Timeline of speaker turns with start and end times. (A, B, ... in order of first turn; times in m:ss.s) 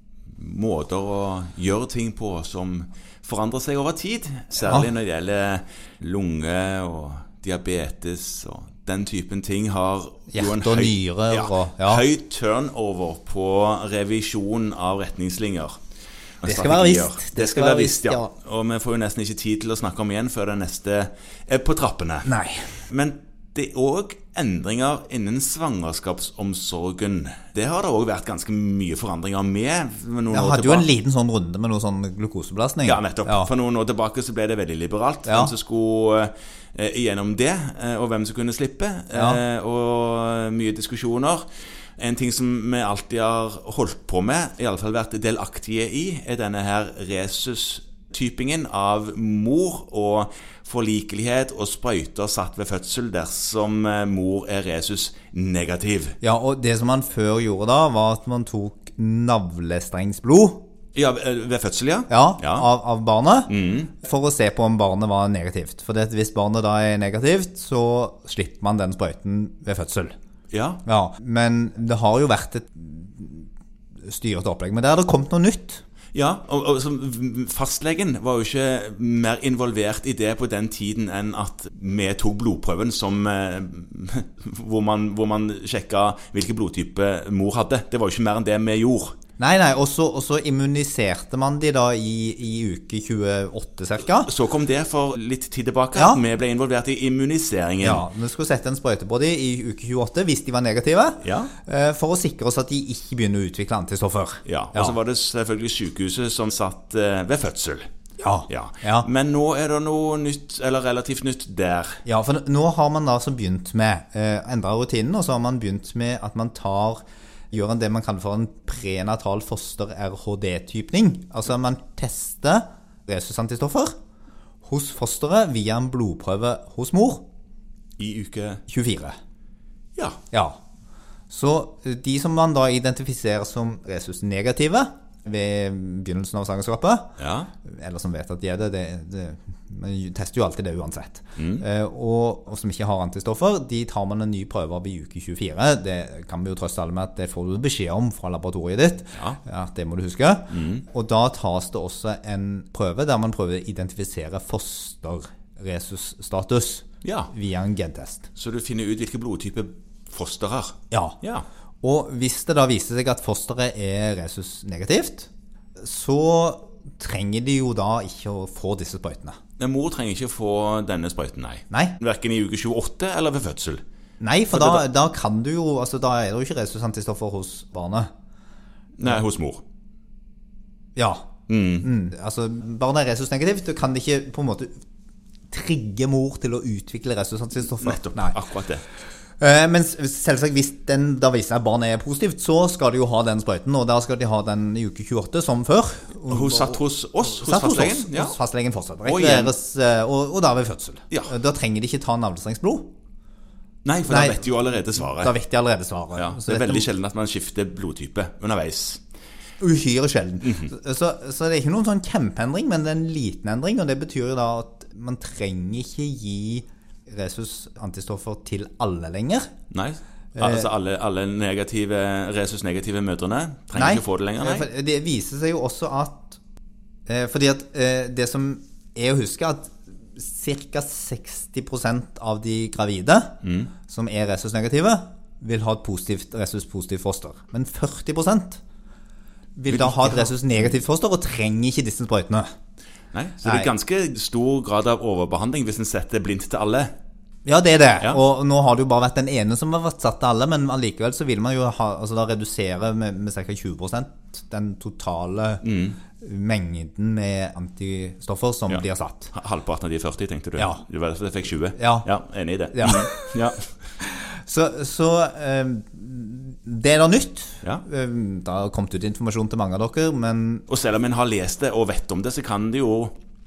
0:00.3-0:15.8 A
0:10.3-0:12.0 B
0:16.4-0:22.3 A
0:16.4-0:18.3 B
0:22.2-0:22.8 B
0:22.9-0:30.9 A
0:30.3-0:33.5 B
0:32.8-0:41.5 A
0:35.2-0:35.5 B
0:39.1-0:39.4 B
0:42.0-0:56.2 A
0:56.2-1:00.7 B
1:01.0-1:02.7 A
1:02.1-1:10.2 B
1:03.5-1:03.9 A
1:10.5-1:10.8 A
1:10.8-1:13.5 B
1:14.0-1:15.8 B
1:16.1-1:29.2 A
1:29.4-1:34.3 B
1:34.2-1:38.1 A
1:36.0-1:36.2 B
1:37.8-1:45.0 B
1:41.2-1:41.5 A
1:44.4-1:47.9 A
1:48.2-1:49.1 B
1:48.5-1:52.0 A
1:52.0-2:03.9 B
2:04.6-2:07.3 B
2:08.0-2:08.6 A
2:08.7-2:09.2 B
2:10.3-2:10.6 B
2:11.3-2:38.3 B
2:17.2-2:17.5 A
2:21.4-2:21.6 A
2:29.1-2:29.4 A
2:30.5-2:30.8 A
2:37.0-2:37.3 A
2:38.4-2:41.5 A
2:40.9-2:41.2 B
2:41.8-2:49.4 B
2:49.6-2:53.8 A
2:51.7-2:52.0 B
2:54.2-2:58.1 B
2:54.5-2:54.8 A
2:59.0-2:59.6 A
3:01.0-3:01.3 B
3:01.5-3:01.9 A
3:01.8-3:04.8 B
3:05.5-3:08.4 B
3:07.6-3:08.8 A
3:09.4-3:22.9 B
3:16.3-3:18.4 A
3:19.0-3:19.5 A
3:23.8-3:25.3 A
3:24.1-3:26.9 B
3:26.2-3:29.0 A
3:29.6-3:39.5 B
3:30.4-3:30.7 A
3:39.7-3:44.7 A
3:40.4-3:40.7 B
3:43.8-3:46.4 B
3:47.1-3:58.6 B
3:53.4-3:53.7 A
3:59.6-4:02.5 B
3:59.7-4:00.7 A
4:03.1-4:06.9 A
4:03.4-4:03.7 B
4:07.4-4:15.6 B
4:15.6-4:16.0 A
4:16.2-4:19.3 B
4:18.7-4:23.7 A
4:20.6-4:20.8 B
4:21.8-4:22.1 B
4:22.7-4:23.4 B
4:24.4-4:30.7 B
4:30.7-4:33.2 A